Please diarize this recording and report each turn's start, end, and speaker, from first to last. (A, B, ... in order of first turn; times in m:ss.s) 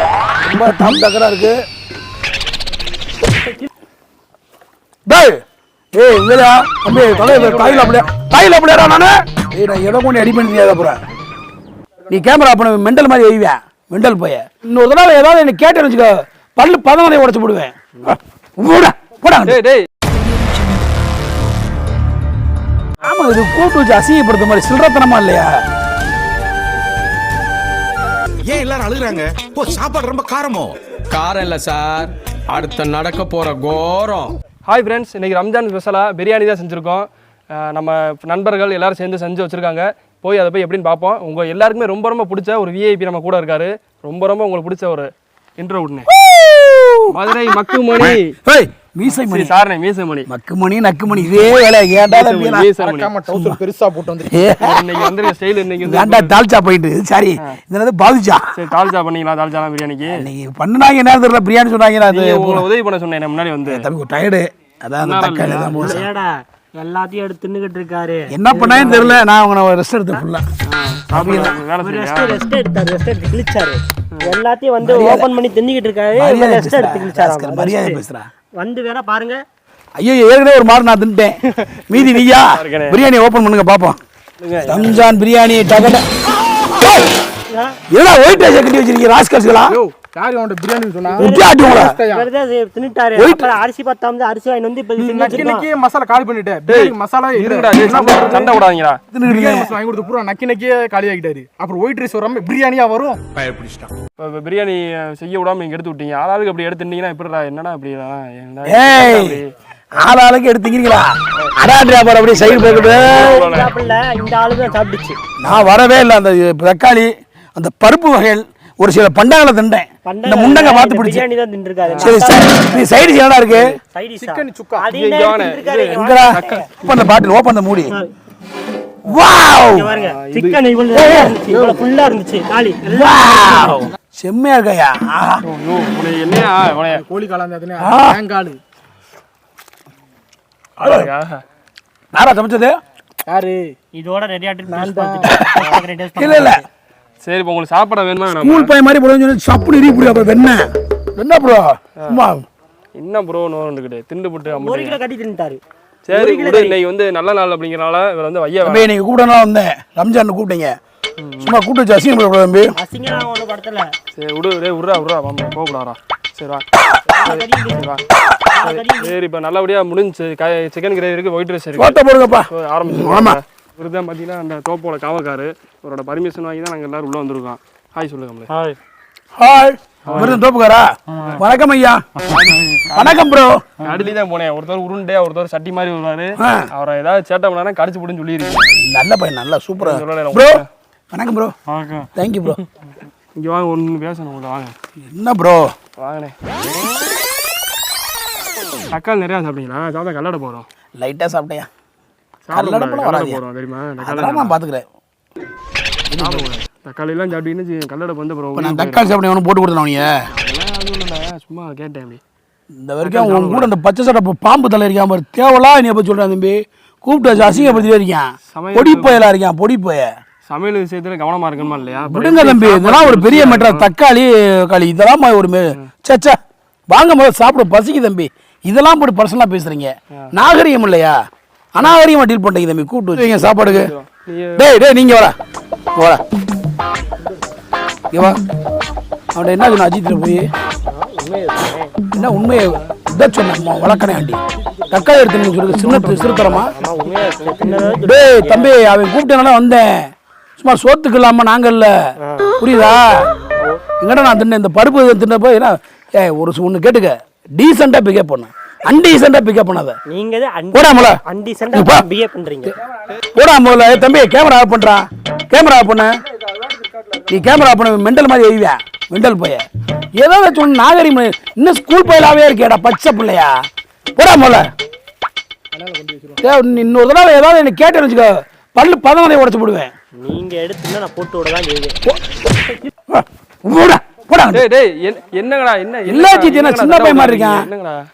0:00.4-0:01.5 A
0:05.1-0:05.4 A
0:05.9-0:11.0 A
0:07.3-0:07.7 B
0:12.1-0:19.6 A
0:19.4-0:19.8 C
0:23.0-0:25.6 A
0:28.5-0:30.8 D
0:31.1-0:34.3 E
0:34.6-0:46.1 C
0:46.1-0:47.1 A
0:47.1-0:48.4 C
0:48.4-0:49.6 A
0:49.1-0:50.3 C
0:50.3-0:52.7 A
0:52.1-0:53.1 C
0:52.8-0:54.4 B
0:54.3-0:55.1 A
0:54.5-0:56.4 C
0:55.8-0:58.5 A
0:58.5-1:00.2 C
1:00.1-1:02.7 A
1:02.1-1:03.9 C
1:03.6-1:06.0 A
1:05.0-1:06.0 C
1:05.8-1:09.2 F
1:08.3-1:10.4 A
1:10.7-1:12.4 C
1:11.1-1:11.6 A
1:11.8-1:18.0 F
1:14.8-1:15.3 A
1:16.1-1:18.3 A
1:18.6-1:19.4 F
1:20.0-1:21.4 A
1:21.6-1:23.0 C
1:21.9-1:24.0 A
1:24.4-1:24.9 C
1:24.6-1:26.0 A
1:26.6-1:27.1 A
1:27.5-1:27.8 F
1:27.9-1:29.8 A
1:29.7-1:32.3 B
1:31.2-1:35.7 F
1:31.2-1:31.9 A
1:33.2-1:33.5 A
1:35.0-1:37.8 B
1:36.7-1:39.0 C
1:37.8-1:39.7 A
1:39.2-1:43.2 B
1:43.4-1:43.9 E
1:44.2-1:49.5 C
1:48.6-1:49.4 A
1:49.9-1:53.3 A
1:52.4-1:53.7 C
1:53.0-1:55.2 F
1:55.4-2:01.3 A
2:00.0-2:02.9 F
2:01.9-2:02.2 C
2:02.0-2:03.8 A
2:03.9-2:06.7 F
2:04.2-2:04.9 B
2:04.9-2:06.6 C
2:05.9-2:07.9 A
2:09.0-2:09.9 A
2:09.6-2:13.9 F
2:09.9-2:11.8 C
2:10.9-2:11.4 A
2:12.8-2:15.4 A
2:15.4-2:17.0 C
2:16.9-2:18.6 B
2:17.8-2:18.2 A
2:20.8-2:21.1 A
2:20.8-2:21.4 C
2:22.1-2:22.7 A
2:23.2-2:23.8 B
2:23.9-2:26.6 F
2:24.7-2:25.4 B
2:25.3-2:26.6 A
2:27.2-2:28.7 C
2:28.3-2:32.4 A
2:33.0-2:35.0 C
2:34.5-2:35.6 F
2:36.0-2:38.9 C
2:36.1-2:36.8 F
2:38.6-2:40.8 A
2:41.2-2:41.6 C
2:41.4-2:42.7 A
2:42.8-2:43.9 F
2:44.1-2:46.6 C
2:47.1-2:49.1 F
2:47.2-2:48.0 C
2:48.6-2:52.0 C
2:51.8-2:53.4 A
2:52.5-2:58.5 C
2:59.4-3:02.0 A
3:00.0-3:00.4 C
3:02.3-3:03.3 C
3:02.9-3:03.6 A
3:03.8-3:08.7 C
3:06.4-3:06.7 A
3:08.8-3:11.5 A
3:09.8-3:10.6 C
3:12.1-3:12.6 A
3:13.4-3:14.7 C
3:15.0-3:15.7 A
3:16.0-3:16.3 C
3:18.9-3:20.7 C
3:21.0-3:21.7 A
3:22.4-3:24.6 C
3:22.5-3:23.4 A
3:24.0-3:24.8 A
3:26.1-3:29.1 C
3:26.1-3:26.4 A
3:28.6-3:30.2 A
3:30.3-3:32.2 C
3:32.8-3:40.1 A
3:33.0-3:33.7 C
3:37.3-3:37.9 C
3:38.5-3:39.2 C
3:40.5-3:43.9 C
3:42.1-3:46.4 A
3:46.9-3:51.2 A
3:51.7-3:53.9 A
3:53.4-3:54.7 C
3:54.6-3:55.3 A
3:55.9-3:56.2 A
3:58.1-3:58.4 A
3:59.3-4:00.5 A
4:00.9-4:01.9 F
4:02.1-4:06.7 A
4:05.8-4:07.8 C
4:06.6-4:08.7 F
4:08.0-4:11.9 A
4:12.2-4:12.6 F
4:12.6-4:13.3 A
4:14.0-4:20.0 A
4:20.1-4:22.8 F
4:20.7-4:21.2 A
4:21.7-4:22.0 A
4:23.3-4:26.1 A
4:27.2-4:29.6 A
4:30.2-4:33.6 A
4:34.2-4:34.7 A
4:35.7-4:36.4 B
4:36.4-4:39.9 A
4:40.2-4:42.0 F
4:43.1-4:44.6 A
4:44.5-4:48.0 C
4:46.0-4:47.7 A